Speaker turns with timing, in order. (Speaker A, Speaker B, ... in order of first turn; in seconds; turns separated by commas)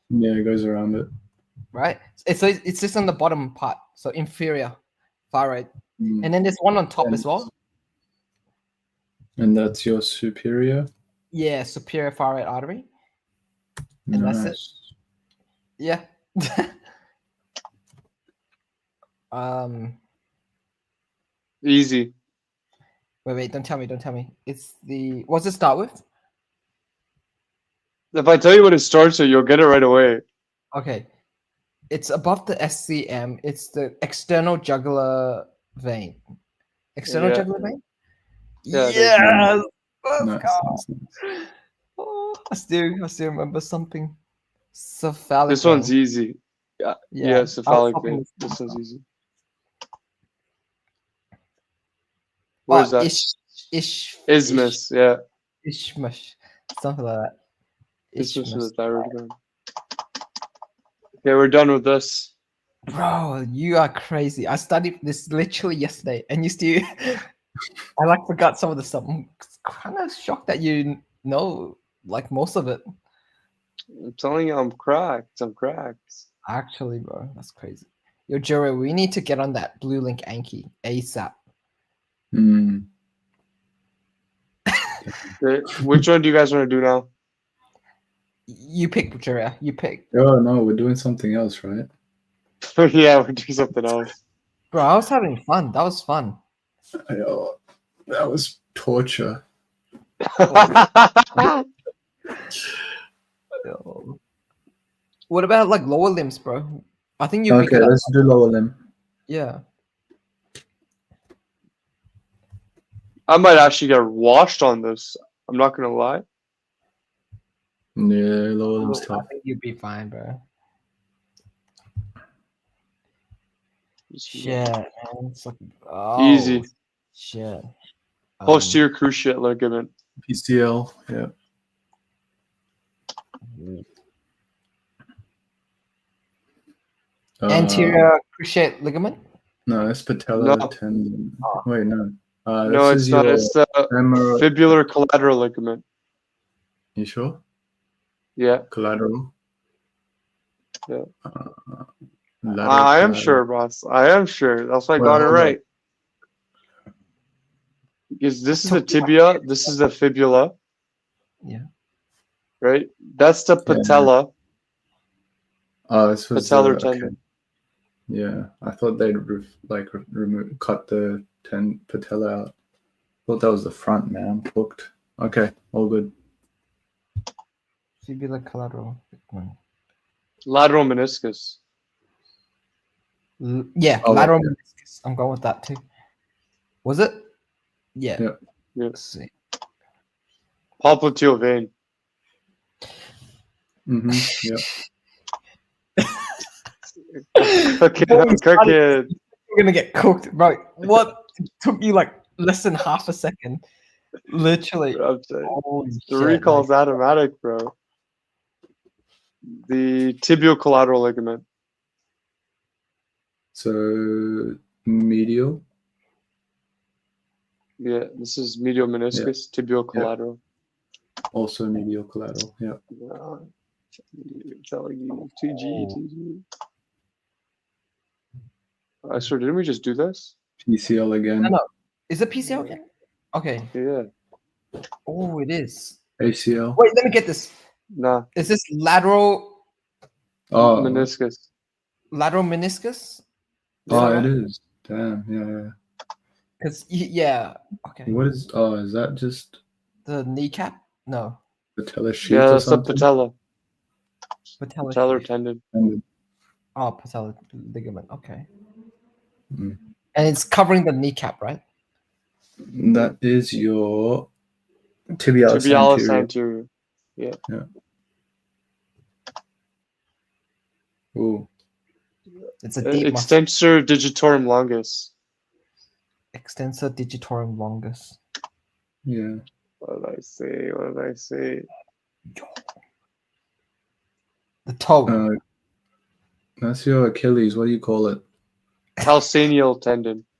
Speaker A: 0.1-1.1, Speaker B: 1.7-4.8, Speaker B: 5.3-5.7, Speaker A: 6.0-6.3, Speaker B: 6.2-7.5, Speaker A: 7.0-7.5, Speaker A: 9.4-10.9, Speaker B: 11.3-12.9, Speaker A: 14.1-14.8, Speaker B: 14.1-14.6, Speaker B: 15.8-16.7, Speaker B: 19.3-20.0, Speaker C: 21.6-22.1, Speaker B: 23.2-26.0, Speaker C: 28.1-30.2, Speaker B: 30.7-31.1, Speaker B: 31.9-36.2, Speaker B: 37.0-37.8, Speaker C: 37.1-37.5, Speaker B: 38.7-44.2, Speaker C: 38.7-39.5, Speaker A: 40.2-41.1, Speaker B: 44.7-45.9, Speaker C: 45.5-49.0, Speaker B: 47.1-48.8, Speaker C: 52.7-53.2, Speaker B: 52.7-54.8, Speaker C: 54.3-55.2, Speaker B: 55.6-57.3, Speaker B: 58.1-59.1, Speaker C: 58.2-59.3, Speaker C: 61.2-62.3, Speaker B: 62.9-67.2, Speaker B: 68.0-72.8, Speaker C: 74.0-76.2, Speaker B: 76.5-81.3, Speaker A: 82.3-82.9, Speaker C: 85.4-87.1, Speaker B: 88.5-90.0, Speaker A: 90.1-91.9, Speaker C: 92.8-94.1, Speaker B: 94.7-96.4, Speaker A: 97.1-97.5, Speaker A: 98.1-99.4, Speaker C: 100.3-101.6, Speaker B: 100.5-100.8, Speaker B: 103.6-104.2, Speaker B: 105.3-108.1, Speaker A: 107.5-108.8, Speaker B: 109.3-109.6, Speaker C: 113.3-116.2, Speaker A: 118.0-119.3, Speaker B: 118.8-120.4, Speaker C: 124.1-124.6, Speaker B: 124.3-127.7, Speaker C: 126.2-126.7, Speaker B: 128.4-128.8, Speaker C: 128.4-129.9, Speaker A: 130.2-131.3, Speaker B: 133.5-133.8, Speaker A: 137.4-138.1, Speaker B: 137.5-139.2, Speaker A: 139.7-144.5, Speaker C: 140.3-140.7, Speaker C: 142.7-145.8, Speaker A: 146.9-147.4, Speaker C: 148.3-148.7, Speaker A: 148.7-149.3, Speaker A: 151.2-151.9, Speaker A: 152.4-153.4, Speaker C: 152.6-155.6, Speaker A: 155.0-155.6, Speaker C: 158.2-160.5, Speaker B: 158.6-159.7, Speaker C: 162.6-164.3, Speaker A: 163.7-164.1, Speaker A: 165.9-167.2, Speaker C: 166.3-167.1, Speaker A: 168.1-172.5, Speaker A: 173.2-176.1, Speaker B: 178.0-179.6, Speaker C: 180.4-181.6, Speaker B: 183.4-185.8, Speaker A: 184.0-184.5, Speaker B: 186.8-187.3, Speaker B: 187.9-188.2, Speaker B: 188.9-189.3, Speaker C: 190.8-191.7, Speaker A: 193.9-194.6, Speaker B: 194.1-194.4, Speaker B: 196.0-196.3, Speaker B: 197.3-203.6, Speaker C: 197.5-199.1, Speaker B: 204.3-206.7, Speaker C: 204.9-205.6, Speaker C: 206.1-207.7, Speaker C: 209.5-211.4, Speaker A: 213.5-215.6, Speaker C: 217.8-220.4, Speaker A: 221.3-222.8, Speaker C: 222.9-223.5, Speaker C: 224.1-226.4, Speaker B: 225.6-226.0, Speaker C: 229.0-230.3, Speaker A: 230.6-231.5, Speaker B: 231.4-233.7, Speaker C: 233.7-234.1, Speaker B: 235.1-236.0, Speaker A: 236.2-236.8, Speaker B: 236.8-237.6, Speaker C: 237.9-238.3, Speaker B: 238.3-239.6, Speaker A: 240.5-241.1, Speaker C: 240.5-241.5, Speaker B: 242.1-243.2, Speaker C: 243.9-244.3, Speaker A: 243.9-245.7, Speaker B: 243.9-244.2, Speaker B: 246.6-248.2, Speaker A: 248.1-249.6, Speaker B: 250.0-251.4, Speaker A: 251.8-253.0, Speaker C: 252.2-253.3, Speaker B: 254.6-255.3, Speaker C: 254.9-255.6, Speaker A: 255.7-256.0, Speaker B: 256.8-258.5, Speaker A: 259.5-259.8, Speaker B: 260.1-261.6, Speaker A: 262.6-264.3, Speaker A: 265.2-266.3, Speaker C: 265.5-267.4, Speaker A: 271.1-271.5, Speaker B: 272.6-273.3, Speaker C: 272.8-275.1, Speaker B: 276.3-278.2, Speaker A: 279.1-279.4, Speaker C: 279.8-281.7, Speaker B: 284.6-285.2, Speaker A: 285.1-285.4, Speaker A: 286.6-288.2, Speaker C: 289.0-290.2